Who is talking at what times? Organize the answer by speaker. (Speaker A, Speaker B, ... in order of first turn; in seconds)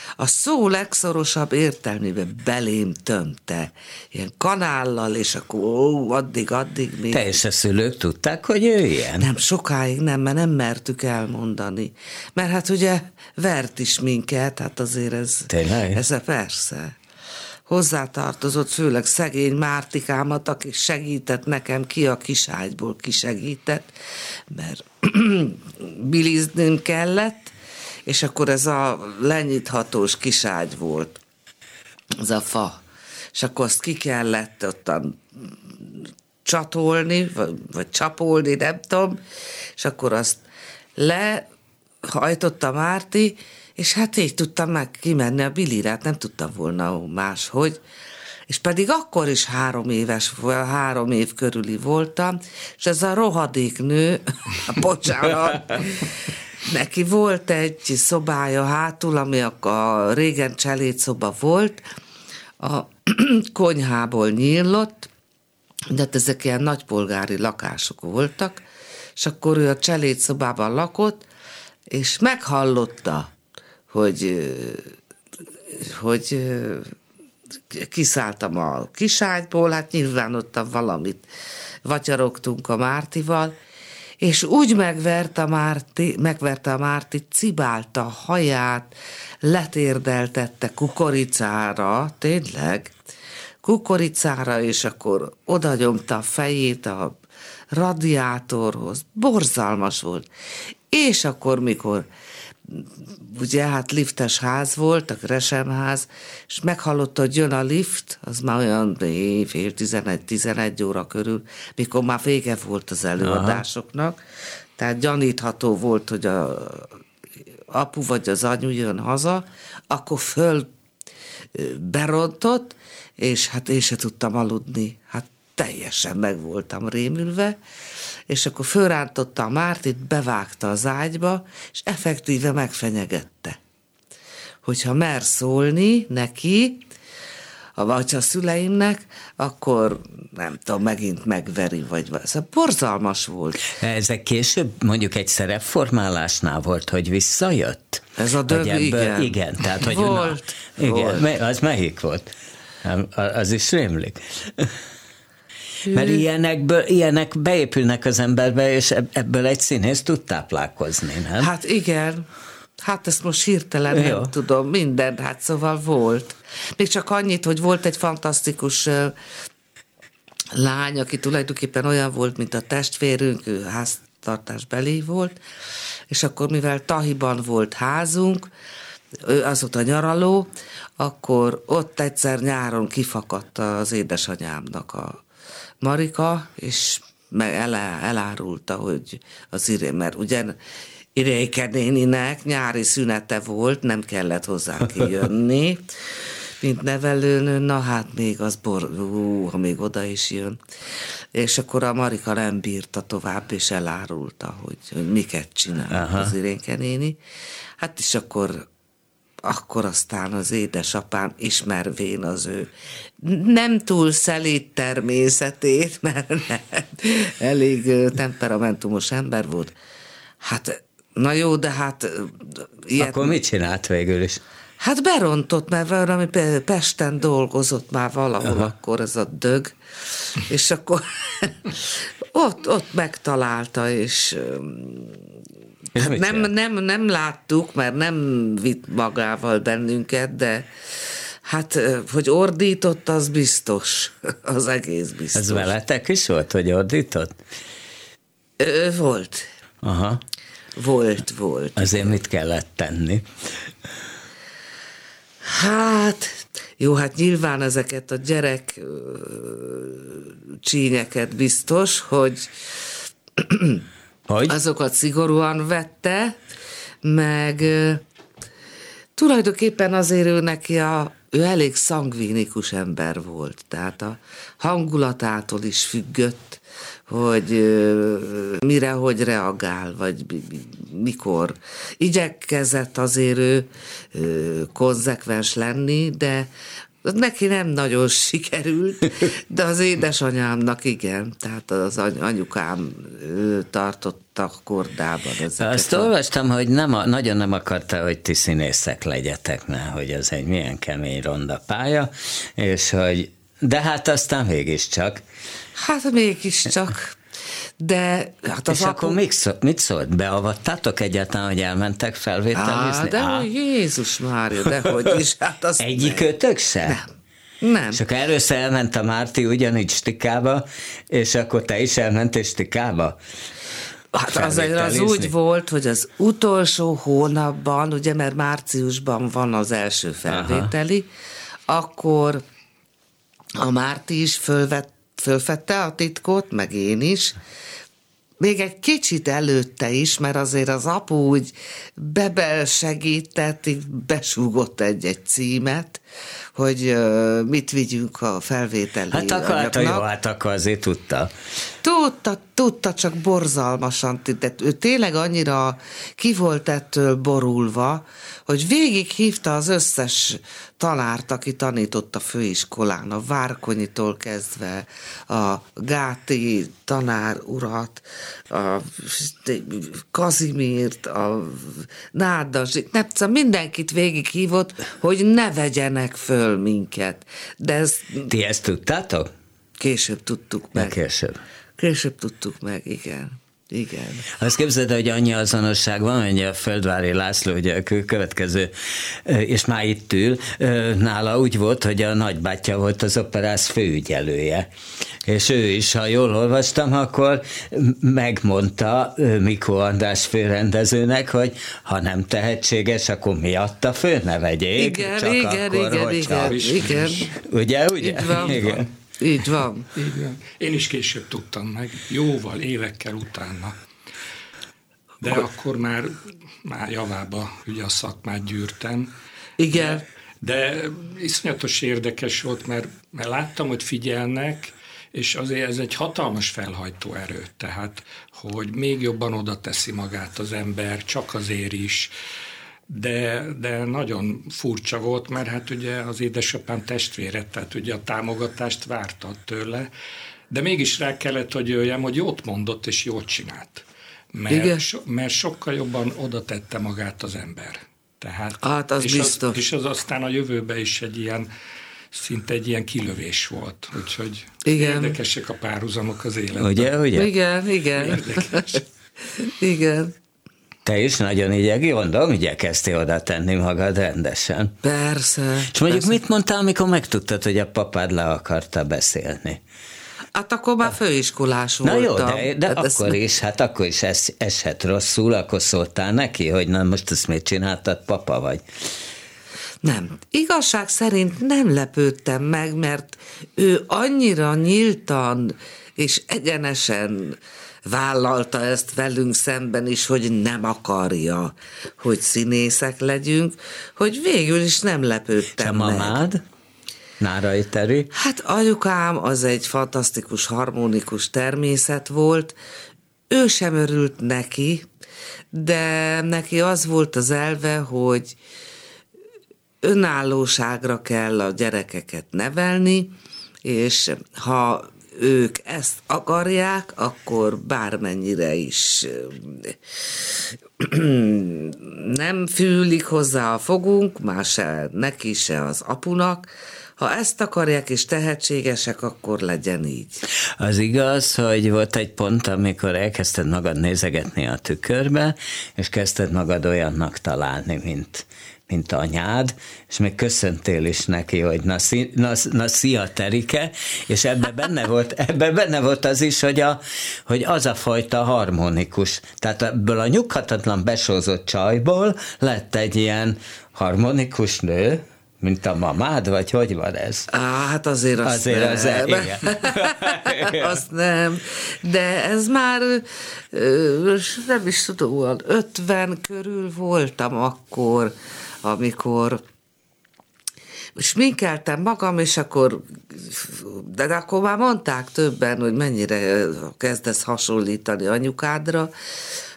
Speaker A: 0.2-7.3, 9.2-17.0, 17.7-23.9, 24.5-27.5, 28.1-31.2, 32.2-32.8, 33.3-39.2, 39.8-40.4, 41.0-41.5, 42.1-47.8, 48.5-61.8, 62.6-65.1, 65.9-68.6, 69.2-71.2, 71.9-73.3, 73.9-75.0, 75.7-76.9, 77.7-81.2, 81.8-83.6, 84.2-93.0, 93.6-97.2, 97.7-100.2, 100.9-102.1, 102.7-114.2, 114.8-117.0, 117.7-120.7, 121.5-127.6, 128.3-133.6, 134.6-136.8, 137.8-143.7, 148.2-151.3, 155.8-156.2, 161.4-162.2, 162.8-169.2, 170.5-175.4, 176.1-178.5, 179.2-185.2, 185.8-190.6, 191.1-200.6, 201.3-207.2, 207.8-208.7, 209.4-212.7, 213.2-219.7, 220.4-223.3, 224.8-235.2, 235.9-245.7, 248.6-249.5, 250.8-252.1, 255.4-262.5, 263.4-263.8, 264.5-266.4, 267.0-268.0, 269.1-286.5, 287.0-296.1, 305.8-307.2, 307.8-309.2, 312.5-316.3, 317.6-318.0, 324.1-331.1, 331.7-332.4, 333.6-337.4, 338.4-346.0, 346.5-350.1, 351.8-378.3, 379.8-381.0, 381.8-384.3, 404.8-407.3, 408.0-409.9, 419.6-420.0, 444.5-444.8, 448.6-449.6, 454.6-455.1, 457.1-460.1, 464.8-466.2, 470.3-473.2, 479.8-496.2, 498.1-502.6, 503.3-504.9, 505.5-508.4, 509.8-530.2, 557.3-569.4, 571.0-578.9
Speaker B: 7.1-9.3, 15.5-16.0, 113.2-113.6, 143.7-152.3, 152.8-154.8, 155.9-161.5, 163.9-164.3, 205.9-206.3, 223.0-224.4, 228.4-228.7, 235.9-236.5, 245.3-247.3, 249.8-250.2, 251.8-253.3, 264.3-264.6, 295.6-305.2, 308.7-313.5, 315.8-317.0, 317.9-323.2, 324.3-325.3, 330.3-330.7, 349.1-351.3, 378.3-379.3, 380.8-381.4, 384.3-394.7, 395.2-406.8, 407.4-408.9, 456.6-457.3, 460.9-464.8, 465.7-469.6, 471.8-478.6, 495.6-496.4, 497.2-498.1, 530.6-557.3, 558.2-560.8
Speaker C: 406.3-407.3, 408.3-408.8, 409.9-413.8, 415.2-419.1, 419.7-432.1, 432.9-439.9, 440.5-451.5, 452.1-456.9, 458.0-458.8